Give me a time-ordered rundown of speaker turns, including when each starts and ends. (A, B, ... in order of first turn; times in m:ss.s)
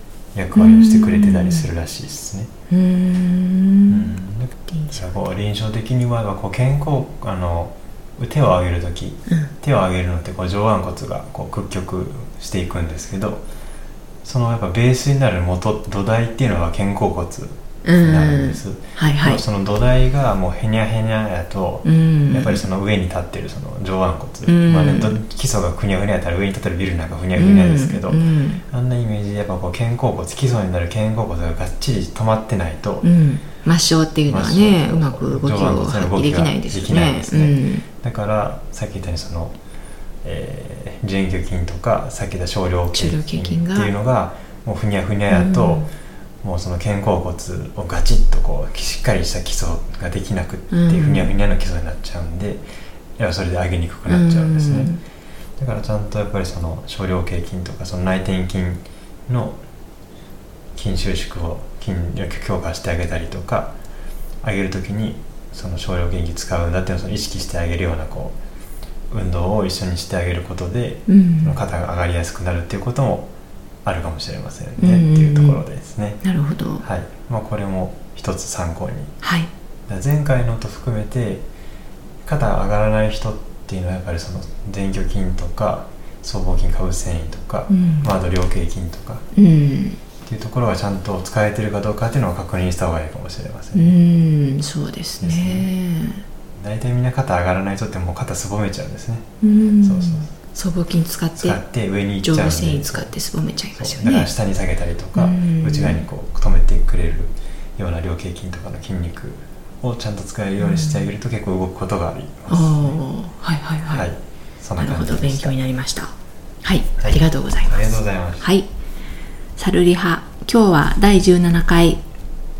0:00.3-0:02.5 A
0:00.6-0:01.7 B
0:02.7-0:04.1 B
0:03.9-0:13.5 A
0:04.7-0:05.1 B
0:14.2-0:33.1 A
0:17.8-0:19.4 B
0:21.8-0:22.6 B
0:24.5-0:25.2 B
0:27.4-0:28.6 B
0:33.0-0:37.8 B
0:34.3-0:39.6 A
0:40.2-0:45.9 A
0:42.9-0:43.9 B
0:45.3-0:45.9 B
0:46.4-0:52.6 A
0:50.7-0:51.3 B
0:53.2-0:54.9 A
0:54.1-0:55.0 B
0:55.6-0:59.6 A
1:00.8-1:03.7 A
1:04.4-1:08.4 A
1:09.1-1:13.3 A
1:11.1-1:11.6 B
1:13.8-1:16.2 A
1:14.8-1:15.6 B
1:16.2-1:16.8 B
1:16.8-1:19.1 A
1:19.2-1:19.5 B
1:19.9-1:21.5 A
1:22.2-1:29.2 A
1:27.7-1:28.1 B
1:29.4-1:30.0 B
1:30.2-1:34.0 A
1:33.7-1:36.2 B
1:35.2-1:35.7 A
1:36.6-1:39.3 A
1:39.4-1:41.6 B
1:39.8-1:40.3 A
1:41.4-1:43.1 A
1:42.2-1:44.3 B
1:43.8-1:53.0 A
1:45.2-1:46.0 B
1:50.6-1:51.1 B
1:52.5-1:54.1 B
1:53.9-1:55.6 A
1:54.8-1:56.1 B
1:56.6-1:58.7 B
1:57.0-1:58.5 A
1:59.6-2:02.0 B